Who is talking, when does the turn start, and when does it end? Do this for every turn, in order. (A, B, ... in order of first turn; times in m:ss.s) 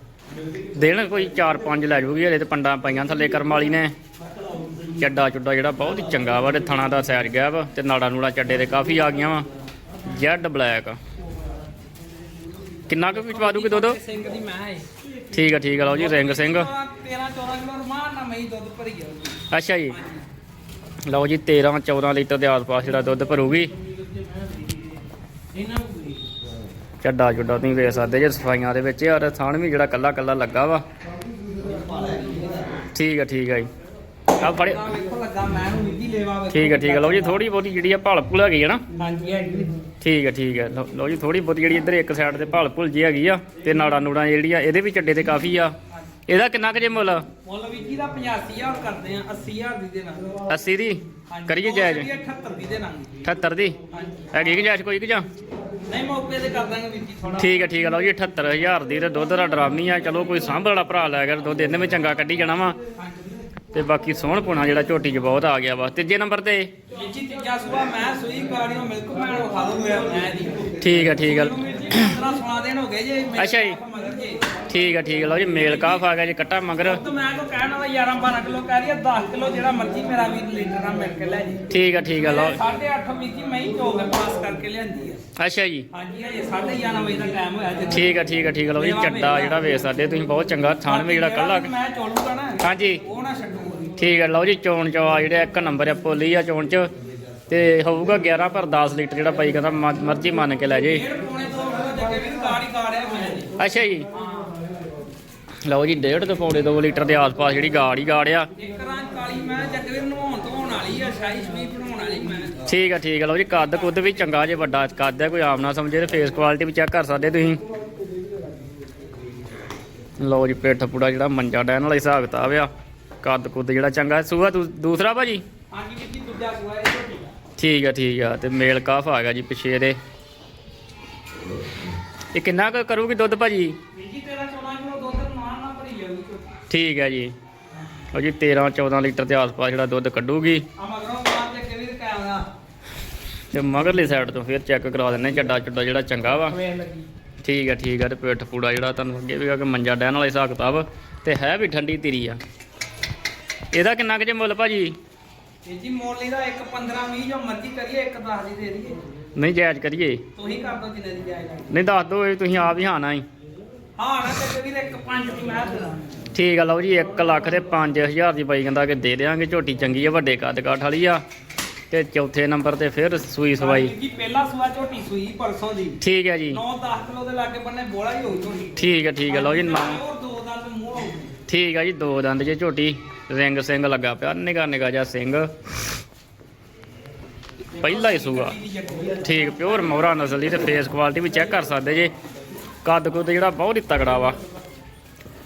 0:00.7-0:03.9 A
0:05.0-0:09.5 A
0:10.0-0:11.0 A
0:12.9-0:14.0 A
0:13.2-0:14.8 B
0:15.3-0:16.7 A
0:15.8-0:19.4 B
0:19.5-0:20.0 A
0:19.9-0:20.2 B
0:21.1-0:23.7 A
0:27.0-0:30.8 A
0:32.9-0:33.7 A
0:34.4-0:37.4 B
0:34.4-0:34.8 A
0:36.5-0:38.8 A
0:39.0-0:39.7 B
0:40.0-0:45.7 A
0:46.3-0:47.2 A
0:47.4-0:50.3 B
0:50.5-0:52.1 A
0:51.3-0:53.1 B
0:53.2-0:53.8 A
0:53.9-0:54.3 B
0:54.3-0:55.3 A
0:55.9-0:57.5 B
0:57.4-1:02.8 A
1:03.0-1:03.4 B
1:03.7-1:06.7 A
1:06.9-1:14.4 B
1:10.8-1:12.1 A
1:13.4-1:13.8 A
1:14.7-1:17.0 A
1:16.8-1:21.6 B
1:21.7-1:22.6 A
1:22.2-1:25.2 B
1:25.4-1:25.9 A
1:25.9-1:28.0 B
1:27.9-1:31.7 A
1:28.7-1:29.5 B
1:30.9-1:34.0 B
1:32.6-1:33.0 A
1:34.0-1:36.9 A
1:37.5-1:41.0 A
1:40.9-1:43.5 B
1:43.6-1:44.1 A
1:44.1-1:44.5 B
1:45.7-1:48.5 A
1:48.5-1:52.6 B
1:52.7-1:57.6 A
1:53.5-1:54.0 B
2:00.2-2:02.7 A
2:03.2-2:05.4 A
2:05.7-2:07.3 B
2:07.6-2:10.0 A
2:12.3-2:13.8 A
2:13.9-2:16.5 B
2:16.7-2:17.3 A
2:18.1-2:20.6 A
2:20.8-2:22.5 B
2:23.5-2:26.6 A
2:26.3-2:27.1 B
2:27.4-2:32.4 A
2:33.7-2:35.0 A
2:35.7-2:39.0 B
2:39.4-2:40.2 A
2:40.4-2:41.7 B
2:41.7-2:43.2 A
2:44.0-2:46.1 B
2:46.3-2:51.2 A
2:51.9-2:53.9 A
2:53.6-2:56.0 B
2:56.0-2:56.6 A
2:56.5-2:58.8 B
2:58.8-3:00.0 A
2:59.3-3:01.3 B
3:01.5-3:05.5 A
3:07.8-3:10.5 B
3:07.8-3:08.5 A
3:09.2-3:12.1 A
3:12.8-3:14.4 A